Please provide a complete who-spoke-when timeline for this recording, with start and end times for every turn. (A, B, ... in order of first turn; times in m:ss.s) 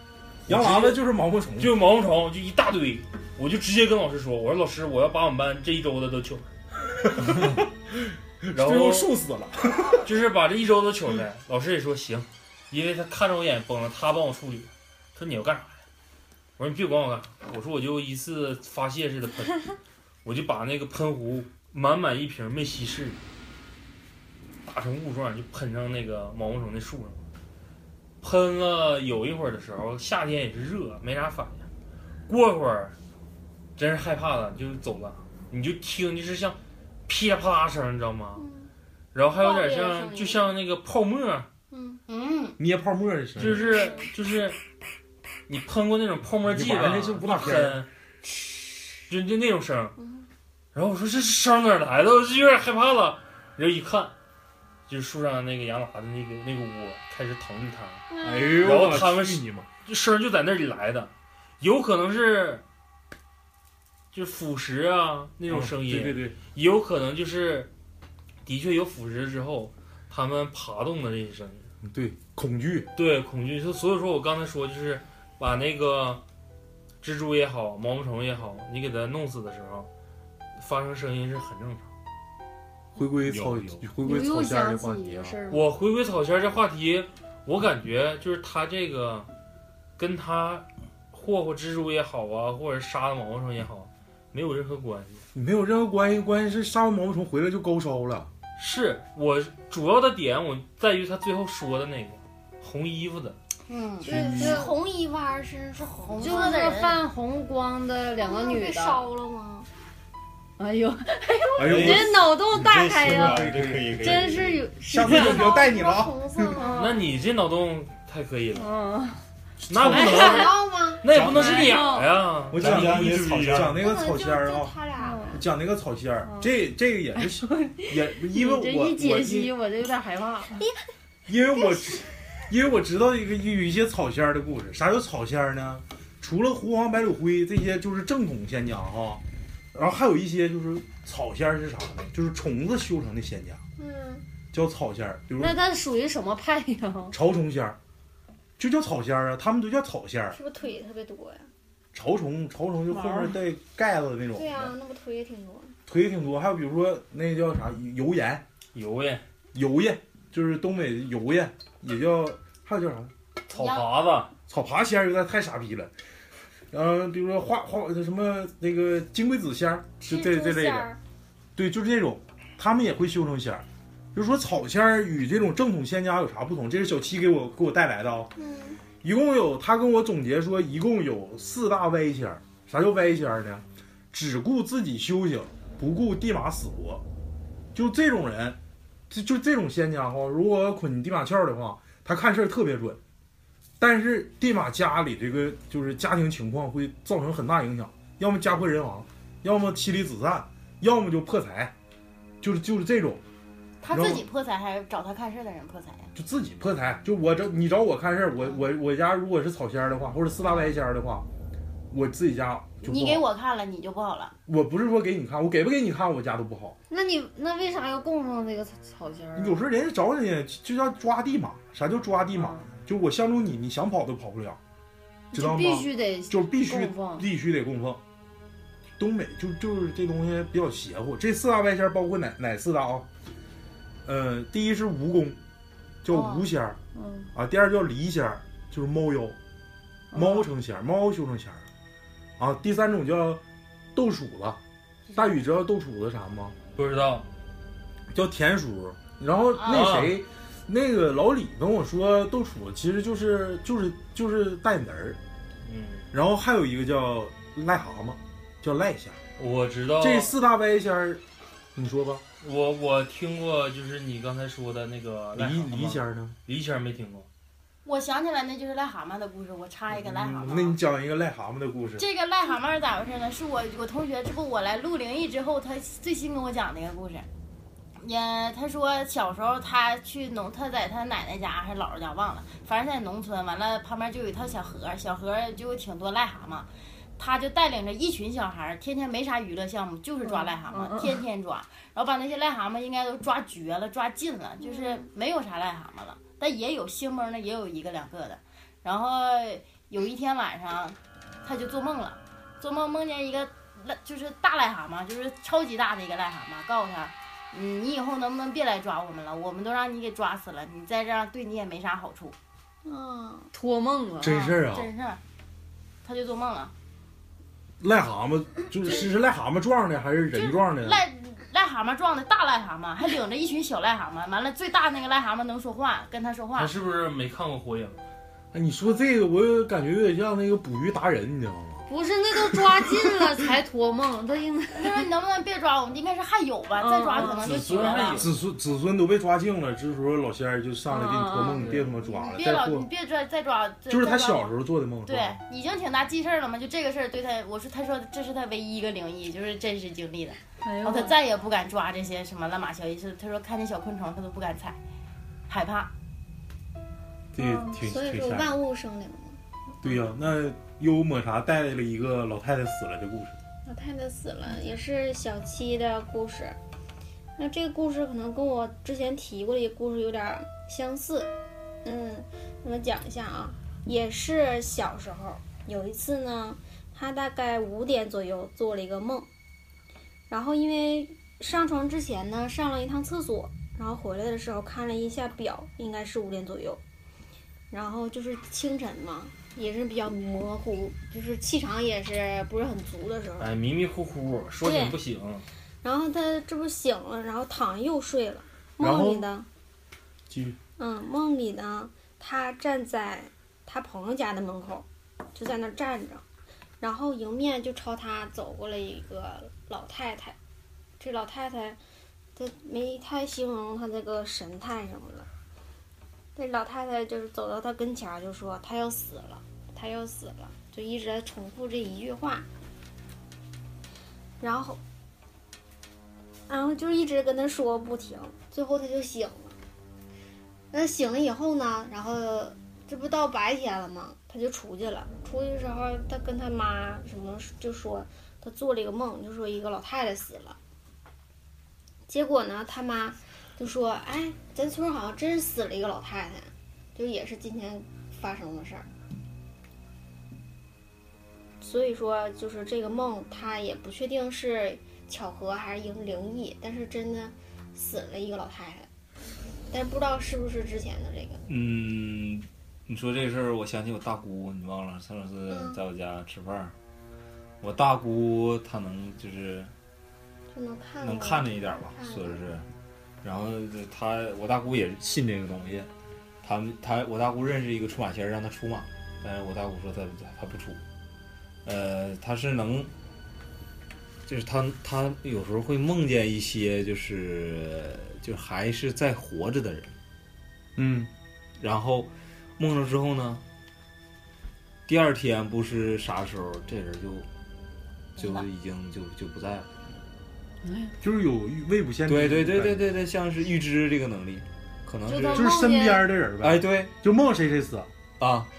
0:00.5-0:01.0 A
0:00.5-0:01.8 B
0:01.6-0:06.5 A
0:07.0-0:10.1 B
0:08.5-0:09.1 A
0:10.0-0:15.8 A
0:16.6-0:19.7 A
0:20.2-0:23.2 A
0:24.6-0:27.2 A
0:28.2-0:31.7 A
0:32.3-0:33.0 A
0:33.8-0:38.4 A
0:38.4-0:38.7 C
0:39.1-0:41.5 A
0:39.5-0:40.3 D
0:39.7-0:40.2 C
0:41.7-0:42.0 C
0:42.1-0:42.6 E
0:42.6-0:43.6 B
0:43.4-0:44.6 A
0:43.4-0:44.1 C
0:45.5-0:47.9 A
0:46.4-0:47.8 B
0:48.2-0:49.0 C
0:49.1-0:50.0 A
0:50.0-0:50.3 C
0:50.7-0:54.1 A
0:54.9-0:58.0 A
0:58.1-0:58.8 C
0:58.2-0:59.7 B
0:58.6-1:02.6 A
1:04.1-1:07.7 A
1:05.5-1:06.4 B
1:08.4-1:11.7 A
1:11.8-1:12.9 B
1:13.0-1:16.2 A
1:17.0-1:19.9 A
1:20.6-1:21.9 A
1:23.0-1:25.3 B
1:23.2-1:23.9 F
1:24.0-1:25.6 D
1:25.5-1:29.3 A
1:30.0-1:35.2 A
1:35.3-1:38.3 B
1:38.6-1:43.4 A
1:44.0-1:46.8 C
1:44.0-1:44.7 D
1:44.0-1:44.7 B
1:45.8-1:47.0 E
1:46.2-1:49.0 D
1:48.2-1:49.7 C
1:50.6-1:55.5 D
1:51.6-1:56.6 B
1:51.6-1:54.6 F
1:55.0-1:56.8 C
1:56.5-1:57.1 D
1:56.7-1:58.7 A
1:58.6-1:59.2 D
1:59.6-2:00.4 B
1:59.7-2:00.5 A
1:59.9-2:00.6 D
1:59.9-2:02.0 C
2:01.0-2:03.7 A
2:01.1-2:01.9 F
2:01.4-2:02.2 D
2:02.5-2:04.7 B
2:02.5-2:03.8 F
2:03.7-2:05.4 C
2:05.0-2:05.4 D
2:05.3-2:09.5 B
2:06.2-2:06.5 D
2:07.2-2:10.6 D
2:11.3-2:19.2 B
2:11.5-2:12.0 C
2:19.7-2:23.6 B
2:23.8-2:24.3 C
2:24.5-2:25.6 B
2:25.4-2:27.2 D
2:27.1-2:27.8 B
2:28.6-2:30.4 B
2:30.3-2:31.5 C
2:31.9-2:34.7 B
2:32.9-2:33.3 D
2:34.3-2:35.8 C
2:35.9-2:38.4 B
2:38.7-2:39.2 A
2:39.5-2:43.1 B
2:43.5-2:44.3 A
2:43.5-2:43.9 E
2:44.5-2:45.9 B
2:46.7-2:50.9 B
2:50.0-2:51.0 C
2:51.6-2:58.3 B
2:58.4-2:58.8 C
2:59.0-3:07.0 B
3:07.7-3:08.6 B
3:09.1-3:13.0 B
3:13.8-3:21.7 B
3:22.4-3:23.2 B
3:23.8-3:26.1 E
3:23.9-3:24.2 B
3:26.1-3:31.2 B
3:30.4-3:30.7 E
3:31.9-3:33.2 B
3:32.8-3:34.3 E
3:34.5-3:36.8 B
3:36.9-3:39.6 D
3:39.3-3:44.6 B
3:42.3-3:42.7 D
3:45.3-3:47.2 D
3:45.3-3:48.0 B
3:49.0-3:53.1 B
3:54.0-3:55.4 B
3:56.0-3:56.8 B
3:56.1-3:56.4 E
3:57.0-3:57.3 D
3:57.3-3:59.4 B
4:00.1-4:00.5 D
4:00.1-4:01.7 B
4:02.4-4:03.4 B
4:04.0-4:04.6 B
4:05.1-4:05.4 E
4:05.1-4:06.6 B
4:06.8-4:07.2 A
4:08.1-4:15.2 B
4:09.5-4:09.9 E
4:09.7-4:10.2 A
4:15.6-4:16.1 A
4:16.1-4:19.2 B
4:19.4-4:20.3 A
4:20.0-4:21.2 B
4:21.8-4:22.2 B
4:22.4-4:27.3 A
4:25.4-4:26.4 B
4:27.8-4:30.8 E
4:29.9-4:32.0 B
4:32.0-4:37.3 E
4:38.0-5:12.4 E
4:50.2-4:51.2 D
5:12.8-5:13.5 C
5:13.5-5:14.4 D
5:14.2-5:14.9 B
5:14.2-5:15.2 E
5:16.0-5:16.7 E
5:17.8-5:21.0 B
5:20.3-5:26.7 E
5:26.6-5:28.0 A
5:28.5-5:31.9 B
5:31.9-5:35.1 D
5:32.4-5:33.3 B
5:34.8-5:38.3 E
5:36.8-5:37.9 D
5:37.2-5:38.4 A
5:38.2-5:42.9 B
5:40.9-5:41.8 D
5:41.5-5:41.9 A
5:42.0-5:44.5 E
5:43.9-5:45.4 B
5:45.0-5:54.8 E
5:50.6-5:51.2 D
5:55.5-5:55.9 E
5:57.3-5:58.5 B
5:57.4-5:57.8 D
5:57.8-5:59.4 C
5:59.8-6:03.4 B
6:03.6-6:06.6 C
6:07.4-6:11.3 C
6:11.8-6:19.3 C
6:20.3-6:26.8 C
6:27.7-6:33.5 C
6:33.4-6:35.5 A
6:34.6-6:35.0 C
6:35.8-6:39.5 C
6:38.8-6:39.2 B
6:40.3-6:40.6 B
6:40.8-6:46.2 C
6:46.8-6:50.4 C
6:51.0-6:51.8 C
6:52.4-6:55.3 C
6:56.3-7:02.5 C
7:04.4-7:04.8 C
7:06.5-7:09.6 C
7:10.7-7:20.6 C
7:22.1-7:28.9 C
7:31.6-7:38.9 C
7:39.7-7:41.4 C
7:41.5-7:46.7 F
7:45.5-7:45.8 C
7:47.6-7:49.7 F
7:50.5-7:52.5 C
7:51.0-7:52.6 F
7:53.2-7:55.9 F
7:56.4-8:00.8 F
8:01.6-8:02.9 F
8:04.2-8:09.9 F
8:10.8-8:11.1 B
8:11.6-8:13.4 F
8:14.9-8:17.3 F
8:18.2-8:19.7 F
8:20.6-8:21.0 D
8:21.0-8:22.9 B
8:22.1-8:25.6 F
8:25.0-8:26.1 D
8:25.3-8:27.9 B
8:26.4-8:26.9 F
8:28.2-8:28.5 F